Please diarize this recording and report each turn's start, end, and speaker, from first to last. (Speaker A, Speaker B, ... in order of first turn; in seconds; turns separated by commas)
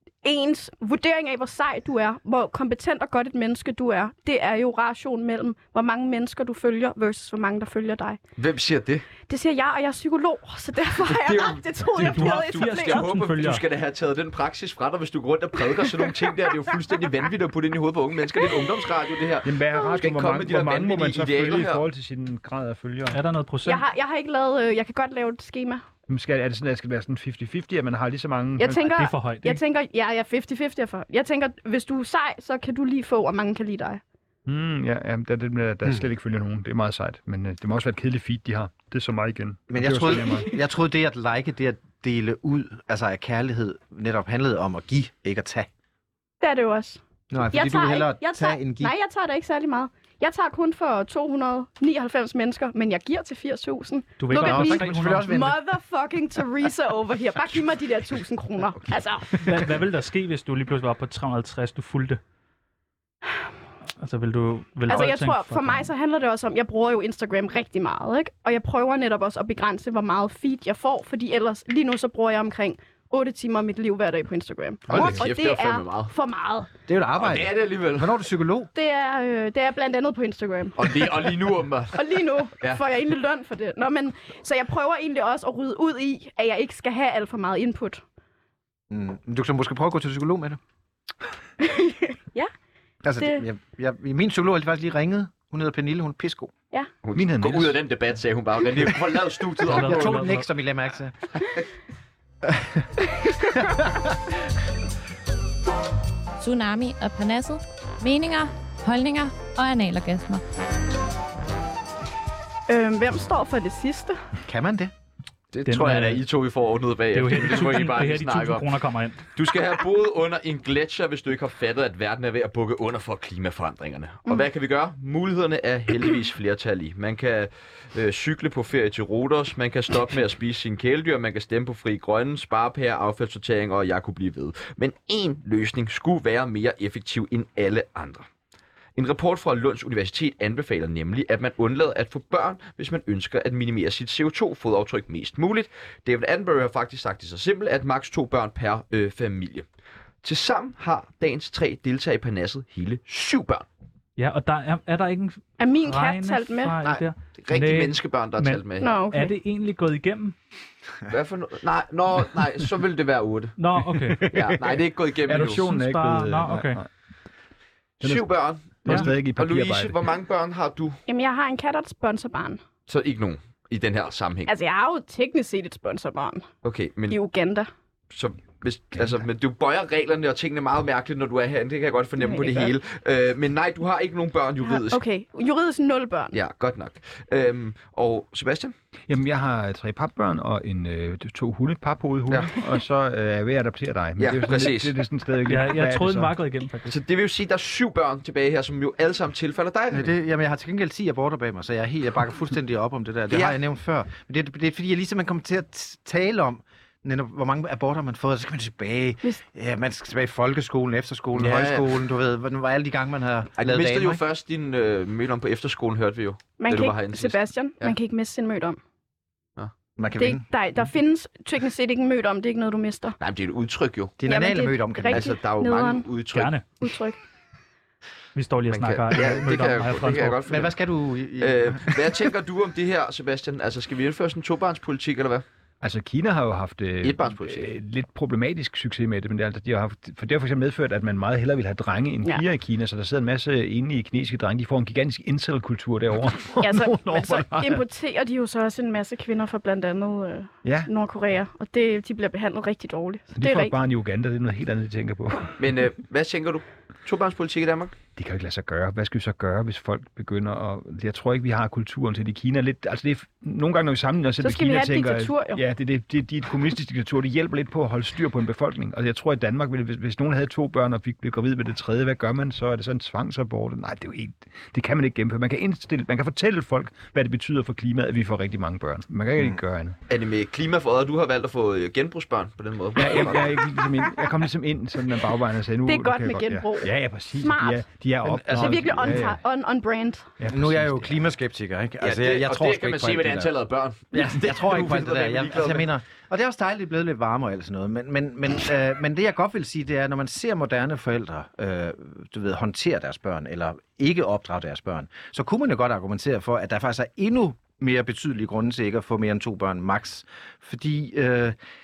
Speaker A: 0.2-8.2, Speaker B: 8.4-9.1, Speaker A: 9.3-13.1, Speaker B: 11.1-21.8, Speaker C: 11.9-13.6, Speaker D: 19.4-23.2, Speaker C: 23.1-23.8, Speaker A: 23.6-25.8, Speaker D: 26.1-28.9, Speaker A: 28.6-34.0, Speaker C: 28.9-29.6, Speaker D: 34.5-40.5, Speaker E: 39.7-45.7, Speaker A: 46.4-59.6, Speaker E: 47.3-48.9, Speaker C: 54.2-55.3, Speaker E: 54.3-55.6, Speaker C: 59.4-62.2, Speaker C: 64.0-65.9, Speaker A: 64.9-76.7, Speaker B: 74.9-76.1, Speaker E: 74.9-75.2, Speaker E: 76.9-78.7, Speaker B: 77.2-78.2, Speaker A: 78.7-81.3, Speaker B: 80.8-82.8, Speaker A: 81.9-88.0, Speaker E: 88.9-90.6, Speaker A: 91.6-92.5, Speaker E: 93.0-96.5, Speaker A: 93.2-93.5, Speaker B: 97.0-100.3, Speaker D: 97.1-97.8, Speaker C: 99.6-100.5, Speaker E: 99.7-101.2, Speaker E: 102.5-104.2, Speaker F: 106.4-110.4, Speaker A: 112.7-114.2, Speaker E: 114.4-114.9, Speaker B: 115.5-118.7, Speaker C: 115.7-116.2, Speaker C: 117.1-119.3, Speaker B: 119.3-138.3, Speaker B: 138.9-149.7, Speaker B: 150.2-153.7, Speaker C: 154.2-160.3, Speaker A: 155.6-156.8, Speaker B: 156.8-158.9, Speaker A: 158.8-159.3, Speaker B: 161.1-163.6, Speaker C: 163.6-164.3, Speaker D: 164.1-166.9, Speaker B: 164.3-165.6, Speaker C: 165.3-166.8, Speaker B: 168.0-171.0, Speaker D: 168.0-168.3, Speaker D: 168.8-170.1, Speaker C: 168.8-169.1, Speaker A: 171.1-172.6, Speaker B: 172.9-174.5, Speaker A: 174.4-176.5, Speaker B: 176.6-177.2, Speaker A: 177.1-177.7, Speaker B: 178.1-185.0, Speaker A: 182.2-182.7, Speaker A: 184.6-186.4, Speaker B: 186.3-188.7, Speaker D: 189.1-196.3, Speaker B: 192.3-192.5, Speaker B: 194.2-194.9, Speaker C: 195.5-197.0, Speaker B: 196.8-200.1, Speaker E: 199.9-214.2, Speaker B: 203.3-203.6, Speaker B: 211.3-212.0, Speaker B: 213.6-217.9, Speaker A: 216.6-218.8, Speaker E: 220.0-220.4, Speaker A: 220.2-223.2, Speaker B: 223.2-224.1, Speaker E: 224.2-225.3, Speaker A: 224.2-226.1, Speaker B: 225.1-226.6, Speaker C: 226.3-226.6, Speaker A: 226.8-227.2, Speaker C: 228.3-230.4, Speaker B: 228.7-230.7, Speaker E: 230.5-232.3, Speaker B: 231.4-235.4, Speaker D: 235.8-247.8, Speaker B: 237.0-237.7, Speaker A: 246.6-253.7, Speaker D: 250.6-250.9, Speaker D: 253.3-255.6, Speaker B: 255.6-257.9, Speaker D: 258.1-280.0, Speaker A: 264.4-265.6, Speaker B: 280.1-283.6, Speaker D: 282.9-289.4, Speaker A: 285.8-287.8, Speaker E: 288.2-289.2, Speaker A: 288.5-290.3, Speaker D: 290.4-291.2, Speaker E: 290.5-293.5, Speaker B: 292.0-295.9, Speaker E: 294.1-311.6